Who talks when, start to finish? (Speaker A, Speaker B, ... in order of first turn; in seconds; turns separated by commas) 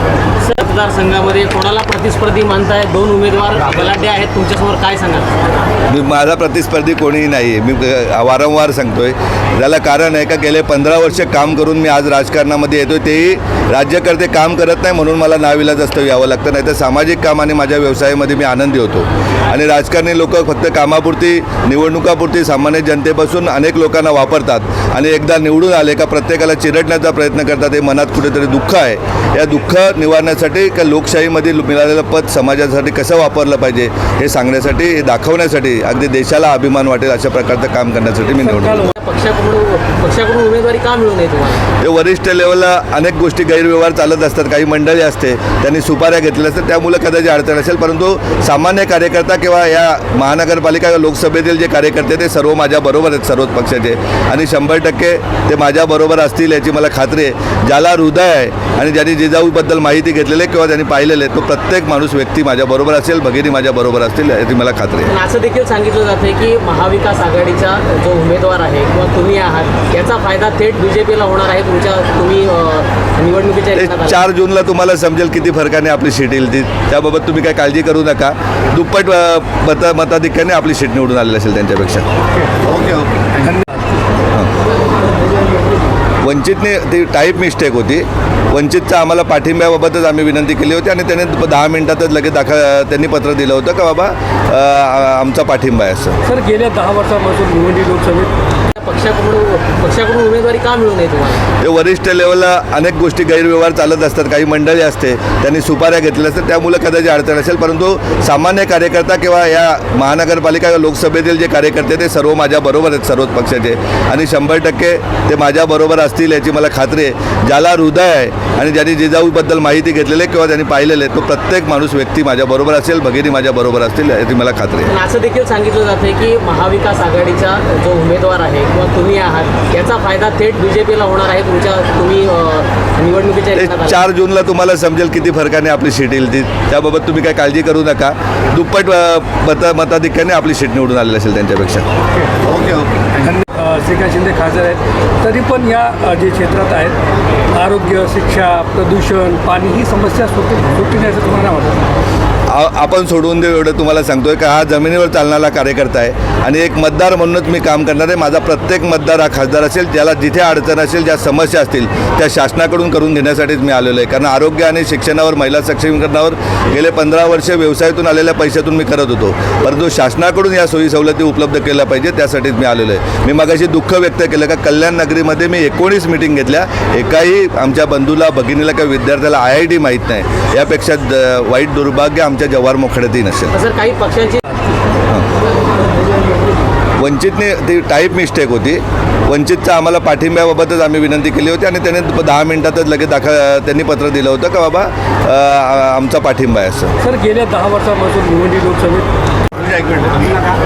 Speaker A: 0.4-5.3, Speaker B: 5.9-38.9, Speaker C: 38.4-38.9, Speaker A: 38.9-41.6, Speaker B: 41.8-65.1, Speaker A: 65.1-74.2, Speaker B: 73.7-82.1, Speaker B: 82.6-83.1, Speaker C: 83.3-83.7, Speaker B: 86.2-96.2, Speaker C: 96.2-98.3, Speaker A: 98.7-101.4, Speaker B: 101.6-124.9, Speaker A: 124.9-134.0, Speaker B: 133.6-141.9, Speaker B: 142.4-142.9, Speaker C: 143.1-147.0, Speaker C: 147.5-151.8, Speaker B: 152.5-183.5, Speaker A: 183.5-184.4, Speaker B: 187.0-196.9, Speaker C: 197.0-199.1, Speaker B: 199.5-200.4